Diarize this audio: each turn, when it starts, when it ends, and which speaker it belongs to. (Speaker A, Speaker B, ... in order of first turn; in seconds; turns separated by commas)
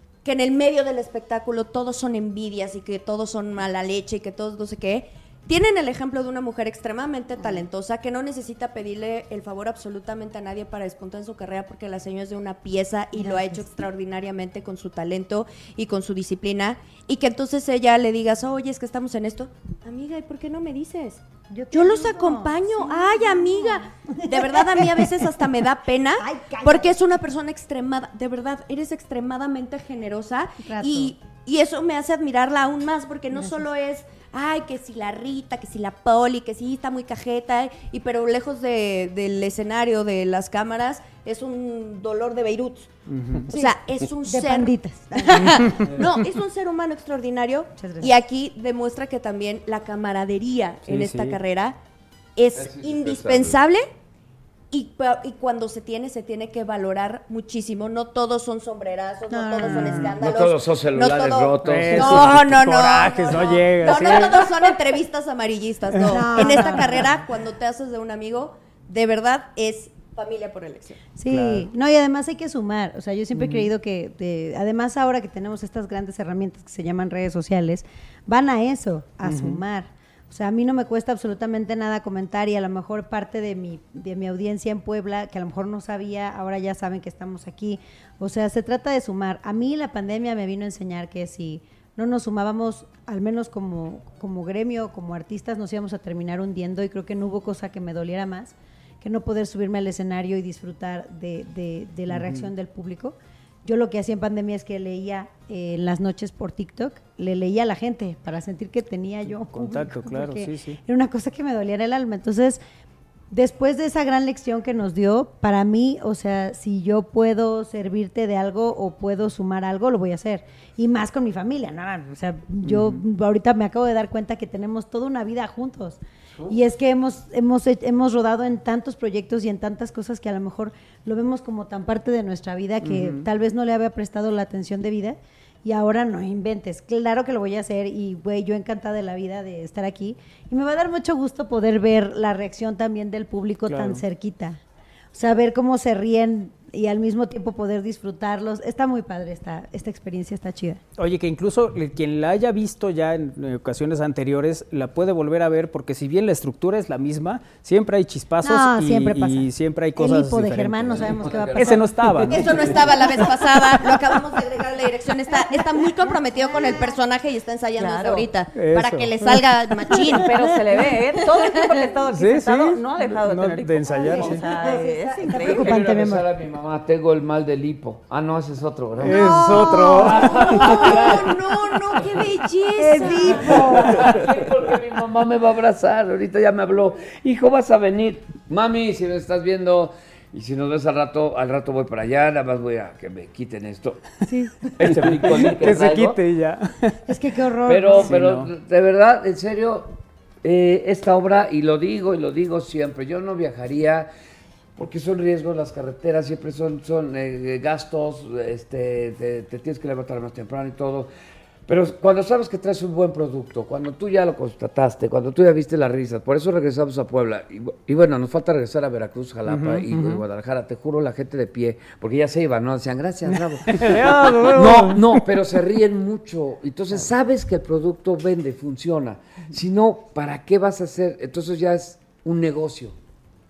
Speaker A: 0.2-42.9, Speaker B: 7.4-7.6, Speaker B: 13.2-13.7, Speaker B: 21.5-25.3, Speaker B: 26.2-26.9, Speaker B: 30.6-31.1, Speaker B: 33.4-33.6, Speaker C: 43.1-43.5, Speaker A: 43.5-51.8, Speaker B: 43.5-45.7, Speaker B: 47.8-48.1, Speaker C: 50.9-51.4, Speaker A: 52.4-53.9, Speaker D: 52.5-53.6, Speaker A: 54.7-71.0, Speaker B: 59.3-60.2, Speaker C: 59.7-60.1, Speaker D: 60.0-62.4, Speaker C: 61.6-64.4, Speaker B: 66.0-67.1, Speaker B: 71.2-112.6, Speaker C: 71.3-71.7, Speaker C: 73.3-73.7, Speaker C: 79.2-79.6, Speaker C: 102.1-102.5, Speaker C: 109.5-110.8, Speaker B: 113.3-144.6, Speaker C: 122.6-123.0, Speaker C: 132.8-133.2, Speaker C: 143.7-144.0, Speaker B: 145.1-150.8, Speaker C: 151.0-162.5, Speaker B: 158.4-161.8, Speaker D: 160.9-163.1, Speaker A: 162.3-170.3, Speaker B: 166.3-166.9, Speaker E: 167.8-168.3, Speaker C: 168.5-169.4, Speaker E: 170.2-175.7, Speaker A: 171.3-171.8, Speaker C: 172.1-174.4, Speaker B: 174.0-176.3, Speaker D: 175.4-182.2, Speaker B: 179.0-180.5, Speaker C: 179.0-181.0, Speaker A: 179.3-183.9, Speaker B: 182.8-184.0, Speaker D: 183.1-196.2, Speaker C: 195.0-197.0, Speaker B: 197.1-198.1, Speaker D: 197.6-204.1, Speaker C: 197.9-198.5, Speaker D: 204.8-211.1, Speaker D: 211.7-232.9, Speaker C: 219.4-220.2, Speaker C: 223.7-225.2